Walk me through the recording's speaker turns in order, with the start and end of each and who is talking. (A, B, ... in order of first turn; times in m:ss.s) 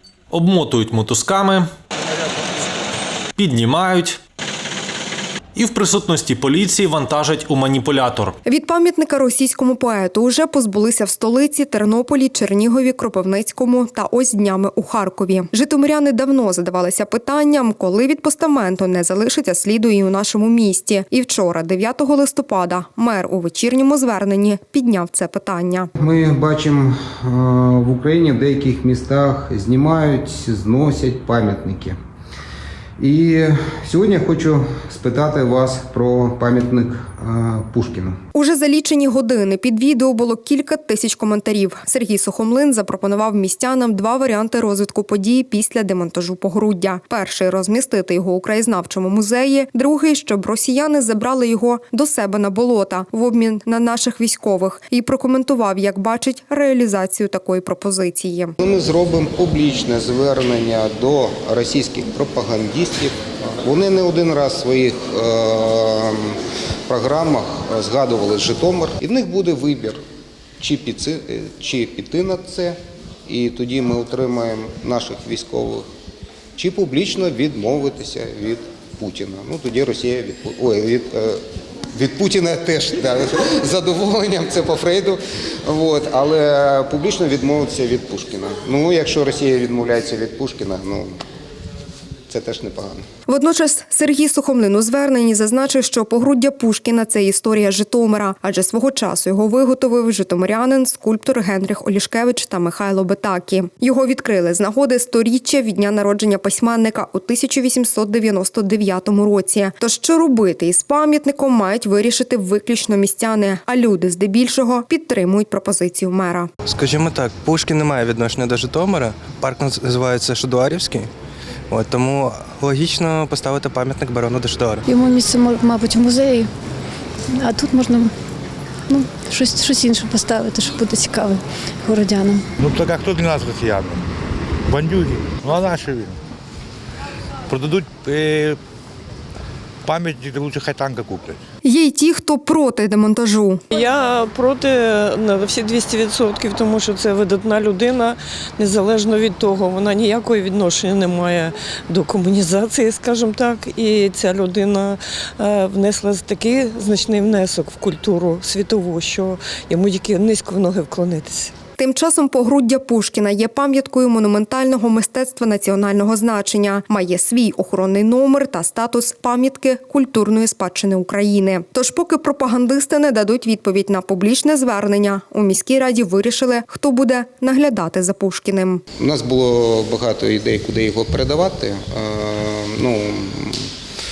0:00.3-0:01.7 A
0:03.4-0:04.2 A
0:05.5-0:08.4 A
0:08.4-0:25.9 B
0:26.0-0:32.0 C
0:33.0-0:38.2 C
0:38.3-0:58.5 B
0:58.6-1:10.0 C
1:10.6-1:15.9 C
1:16.6-1:21.4 C
1:21.9-1:31.1 C
1:32.3-1:33.0 C
1:33.3-1:56.5 B
1:56.6-2:01.1 D
2:01.7-2:04.8 D
2:04.9-2:06.5 E
2:07.4-2:08.1 E
2:08.9-2:12.4 E
2:12.6-2:14.0 F
2:14.7-2:16.2 F
2:17.5-2:18.6 F
2:19.8-2:21.4 F
2:21.6-2:23.6 B
2:23.7-2:41.5 G
2:41.8-2:58.8 B
2:59.0-3:03.7 C